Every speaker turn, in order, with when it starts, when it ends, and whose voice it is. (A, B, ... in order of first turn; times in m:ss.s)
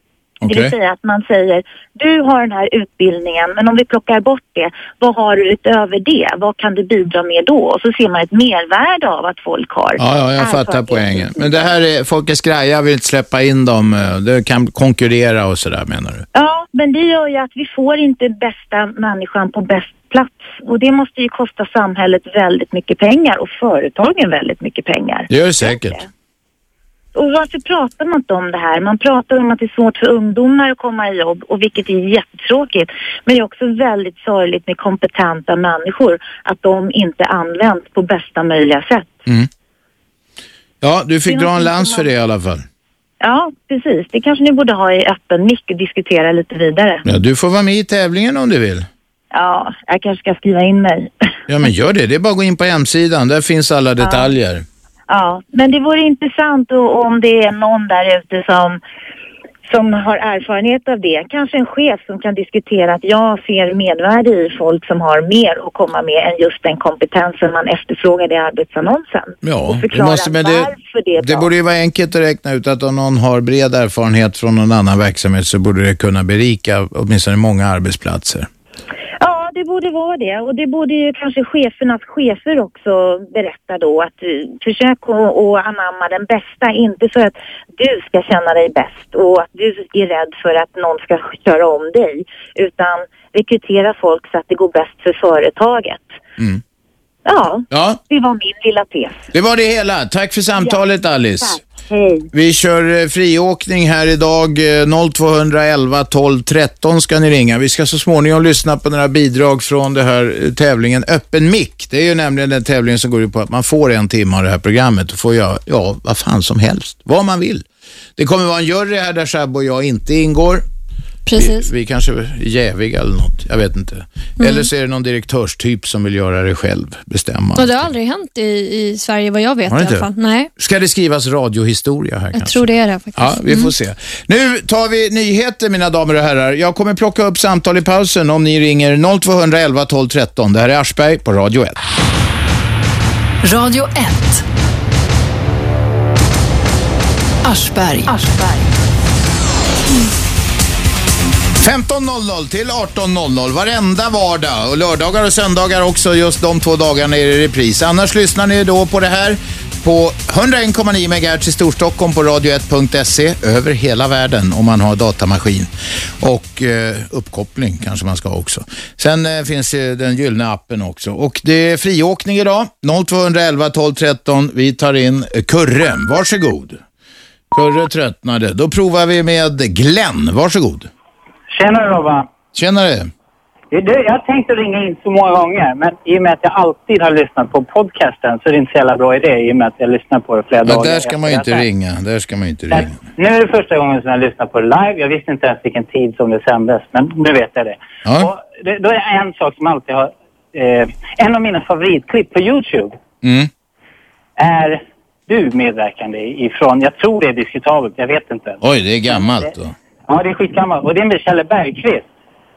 0:00.4-0:00.7 A
0:00.4-0:11.7 B
0:10.0-0:16.2 A
0:16.3-0:26.1 B
0:25.3-0:26.0 A
0:27.1-0:39.2 B
0:40.8-0:42.6 A
0:41.3-0:42.1 B
0:43.2-0:47.0 B
0:47.0-0:48.9 A
0:49.3-0:51.3 B
0:51.5-0:54.6 A
0:54.0-0:54.3 B
0:55.1-0:58.8 B
0:59.7-1:11.5 B
1:09.4-1:18.5 A
1:19.2-1:36.2 B
1:37.2-1:39.3 B
1:37.7-1:38.0 A
1:39.3-1:41.6 A
1:41.4-1:42.3 B
1:42.3-1:57.6 A
1:58.2-2:00.6 A
2:01.3-2:01.7 C
2:01.4-2:07.9 A
2:04.4-2:04.7 C
2:07.6-2:10.5 C
2:09.7-2:12.6 A
2:12.3-2:13.7 C
2:13.1-2:21.8 A
2:23.4-2:24.4 D
2:27.4-2:28.7 D
2:31.6-2:45.7 A
2:46.2-2:56.8 A
2:57.5-3:00.9 A
3:01.5-3:02.3 E
3:02.5-3:03.1 A
3:03.7-3:11.6 E
3:10.6-3:13.0 A
3:12.7-3:22.9 E
3:18.0-3:18.3 A
3:23.2-3:23.5 A
3:24.4-3:29.5 E
3:28.6-3:29.7 A
3:30.1-3:32.0 E